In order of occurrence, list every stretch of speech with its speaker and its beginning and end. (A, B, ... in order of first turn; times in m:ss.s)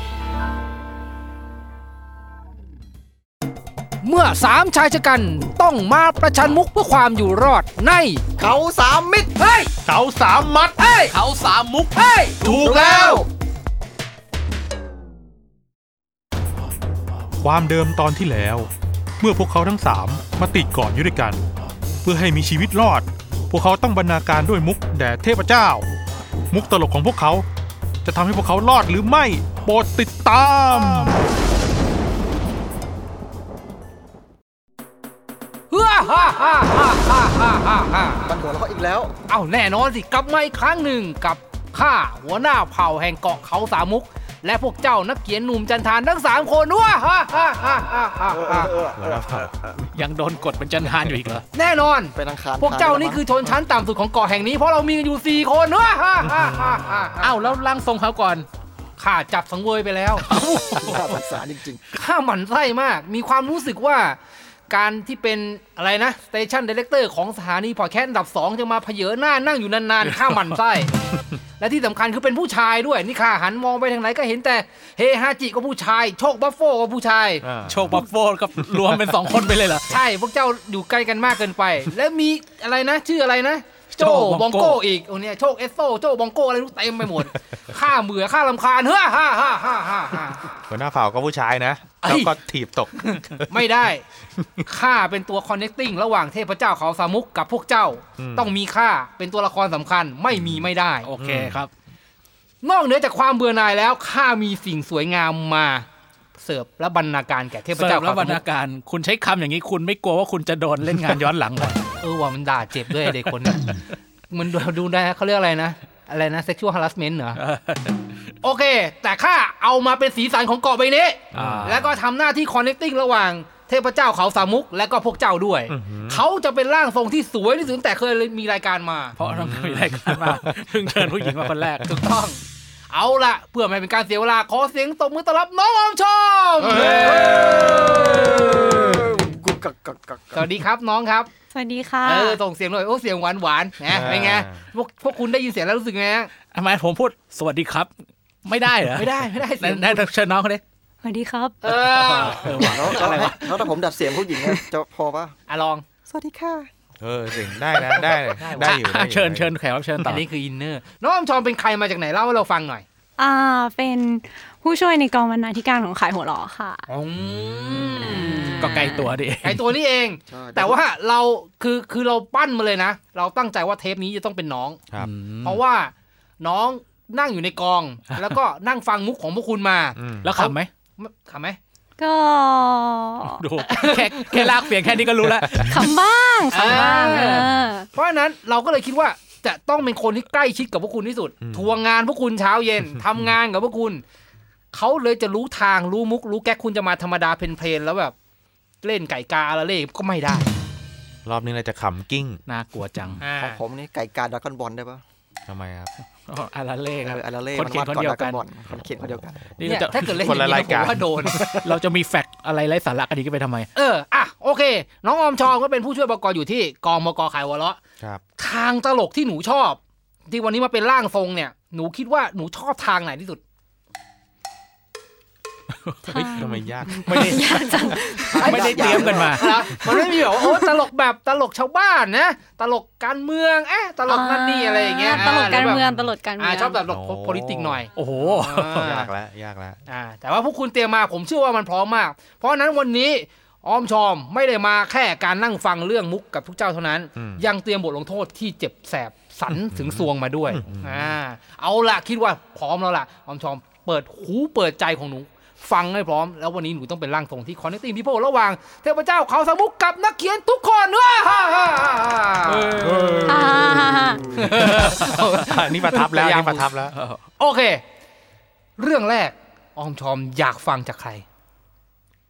0:04.0-0:08.2 A
0:08.4-0:09.3 B
0:09.4-0:09.7 A
0:09.8-0:10.8 C
0:10.8-0:11.2 A
0:11.1-0:12.6 D
0:11.9-0:12.4 A
0:12.4-0:13.2 C
0:12.4-0:13.3 B
0:17.4-0:21.4 C
0:22.0-0:25.9 C
0:26.5-0:27.4 C
0:28.0-0:31.2 C
0:35.7-0:38.3 A
0:38.2-0:39.1 B
0:39.3-0:48.8 A
0:48.3-0:49.0 B
0:49.0-0:49.8 C
0:49.9-0:51.5 D
0:51.5-0:57.5 A
0:52.1-0:53.3 B
0:57.2-0:58.5 D
0:59.0-1:00.3 A
1:00.2-1:01.2 D
1:00.8-1:01.8 B
1:01.9-1:04.2 A
1:04.7-1:10.9 A
1:10.1-1:10.5 D
1:11.6-1:17.4 A
1:17.4-1:18.0 C
1:17.6-1:20.0 D
1:19.9-1:30.4 A
1:23.9-1:24.8 D
1:30.7-1:33.6 C
1:32.0-1:32.4 A
1:33.0-1:34.0 A
1:34.6-1:41.1 A
1:38.2-1:38.5 C
1:41.0-1:41.7 D
1:41.2-1:41.6 C
1:42.6-1:48.4 A
1:47.7-1:51.8 D
1:52.0-1:57.4 A
1:57.4-1:58.1 D
1:58.4-2:09.2 A
2:01.3-2:02.0 C
2:01.3-2:01.8 D
2:05.7-2:06.2 C
2:09.2-2:11.9 D
2:09.2-2:11.9 C
2:11.8-2:18.3 A
2:16.6-2:20.5 B
2:16.7-2:18.0 C
2:20.3-2:21.3 A
2:21.5-2:22.4 E
2:22.0-2:26.3 A
2:23.9-2:24.6 C
2:26.5-2:27.9 D
2:28.4-2:30.6 D
2:28.9-2:30.0 A
2:31.0-2:31.6 E
2:31.6-2:33.4 A
2:31.7-2:33.6 D
2:32.5-2:35.4 B
2:35.5-2:35.8 A
2:36.1-2:36.7 B
2:37.0-2:39.5 C
2:38.4-2:38.8 A
2:38.5-2:40.2 D
2:40.0-2:42.8 A
2:43.2-2:46.8 E
2:46.9-2:54.8 A
2:48.0-2:49.1 E
2:48.6-2:49.6 D
2:50.3-2:50.8 B
2:55.0-2:55.6 D
2:55.4-3:01.6 A
3:00.0-3:00.3 C
3:00.2-3:00.7 D
3:02.0-3:03.4 E
3:03.2-3:06.0 D
3:03.6-3:04.7 A
3:05.7-3:07.9 E
3:06.5-3:14.0 A
3:06.5-3:07.5 D
3:11.4-3:11.7 C
3:14.7-3:18.1 A
3:18.8-3:20.5 A
3:21.3-3:22.4 C
3:22.5-3:23.2 D
3:23.2-3:23.6 A
3:23.2-3:25.0 B
3:25.5-3:25.9 C
3:26.3-3:28.4 D
3:27.0-3:29.5 B
3:29.6-3:30.4 D
3:29.6-3:31.4 A
3:30.1-3:31.6 C
3:31.2-3:33.7 D
3:33.8-3:37.8 A
3:38.4-3:43.4 A
3:45.8-3:49.5 D
3:46.1-3:48.6 E
3:46.3-3:48.2 C
3:48.0-3:49.4 B
3:48.4-3:55.8 A
3:49.7-3:50.7 E
3:54.1-3:56.8 E
3:55.4-3:56.2 C
3:56.4-3:59.1 A
3:56.8-3:57.8 C
3:58.0-3:59.0 D
3:58.8-3:59.8 C
3:59.9-4:23.1 A
4:07.2-4:07.4 C
4:09.7-4:11.2 C
4:22.4-4:25.6 D
4:22.8-4:23.5 C
4:23.3-4:24.2 E
4:24.2-4:26.9 C
4:24.2-4:26.7 A
4:26.9-4:27.2 D
4:27.4-4:27.8 A
4:28.8-4:31.2 A